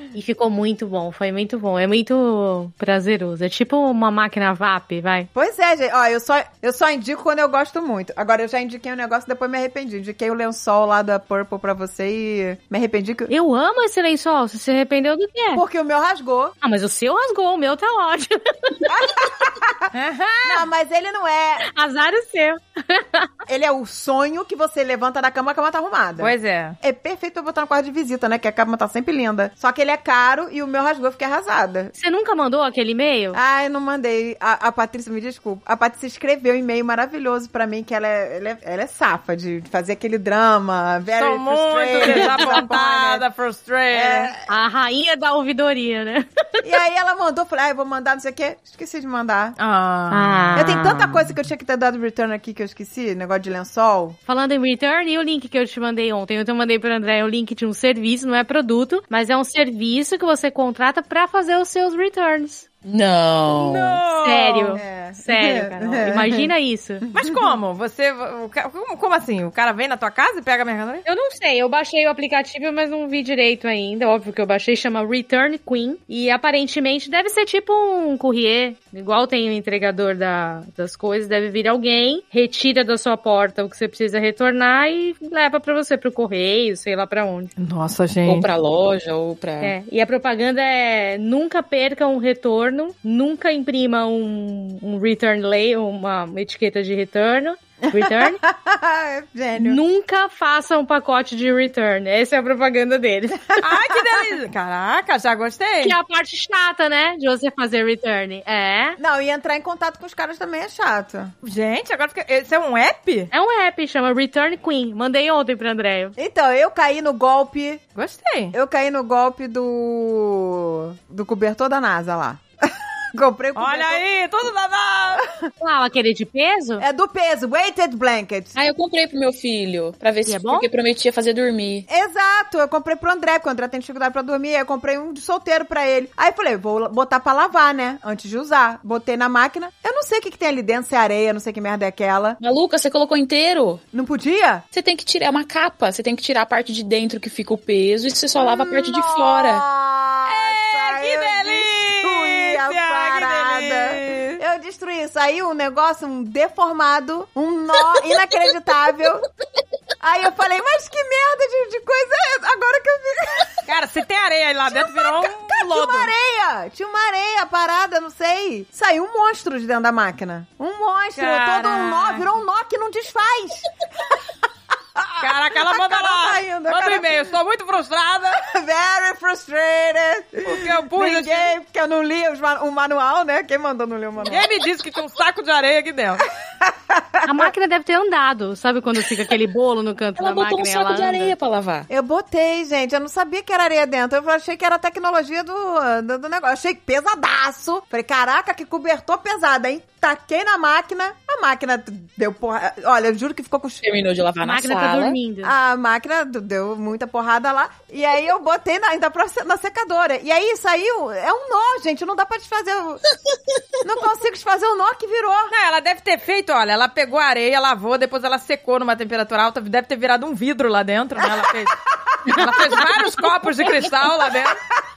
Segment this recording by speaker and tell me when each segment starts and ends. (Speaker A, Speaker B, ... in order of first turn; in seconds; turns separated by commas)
Speaker A: 0.1-5.3, Speaker B: 5.3-13.3, Speaker A: 13.3-15.6, Speaker B: 15.5-16.6, Speaker A: 16.6-19.1, Speaker B: 18.9-19.9, Speaker C: 19.9-20.7, Speaker B: 20.4-21.6, Speaker A: 21.6-23.3, Speaker B: 23.5-31.9, Speaker C: 26.2-26.8, Speaker A: 31.9-33.4, Speaker B: 33.3-43.2, Speaker C: 41.1-44.3, Speaker A: 42.0-42.4, Speaker B: 43.9-44.5, Speaker A: 44.5-46.6, Speaker B: 46.6-49.5, Speaker C: 49.6-50.6, Speaker A: 50.1-51.2, Speaker B: 50.5-54.2, Speaker A: 54.3-62.6, Speaker D: 62.8-64.0, Speaker C: 63.5-64.8, Speaker A: 64.1-67.0, Speaker B: 64.7-67.5, Speaker C: 67.1-71.0, Speaker A: 71.0-87.5, Speaker C: 87.6-88.5, Speaker D: 88.3-89.7, Speaker A: 89.6-98.4, Speaker B: 97.9-99.8, Speaker A: 99.6-103.6, Speaker C: 103.6-106.0, Speaker A: 105.8-109.0, Speaker B: 109.0-111.3, Speaker C: 111.4-113.3, Speaker A: 113.3-116.1, Speaker B: 116.2-117.8, Speaker C: 118.0-118.5, Speaker B: 118.5-124.0, Speaker C: 123.5-125.3, Speaker B: 125.2-125.5, Speaker A: 125.6-126.8, Speaker B: 126.8-128.6, Speaker D: 128.6-131.9, Speaker A: 130.3-130.7, Speaker B: 131.9-142.4, Speaker D: 142.4-143.8, Speaker B: 143.9-144.6, Speaker D: 144.7-149.6, Speaker B: 148.4-159.3, Speaker C: 150.3-154.4, Speaker B: 160.0-163.6, Speaker C: 163.7-166.1, Speaker B: 164.7-174.2, Speaker C: 171.1-172.3, Speaker B: 174.9-177.3, Speaker C: 175.2-178.4, Speaker B: 178.4-184.5, Speaker C: 180.4-181.5, Speaker C: 184.2-186.3, Speaker B: 186.6-187.5, Speaker A: 187.2-191.3, Speaker D: 190.2-191.9, Speaker B: 191.9-203.8, Speaker D: 203.8-205.2, Speaker A: 204.4-205.5, Speaker B: 205.4-213.0, Speaker B: 213.8-215.5, Speaker C: 215.5-224.6, Speaker B: 222.3-222.5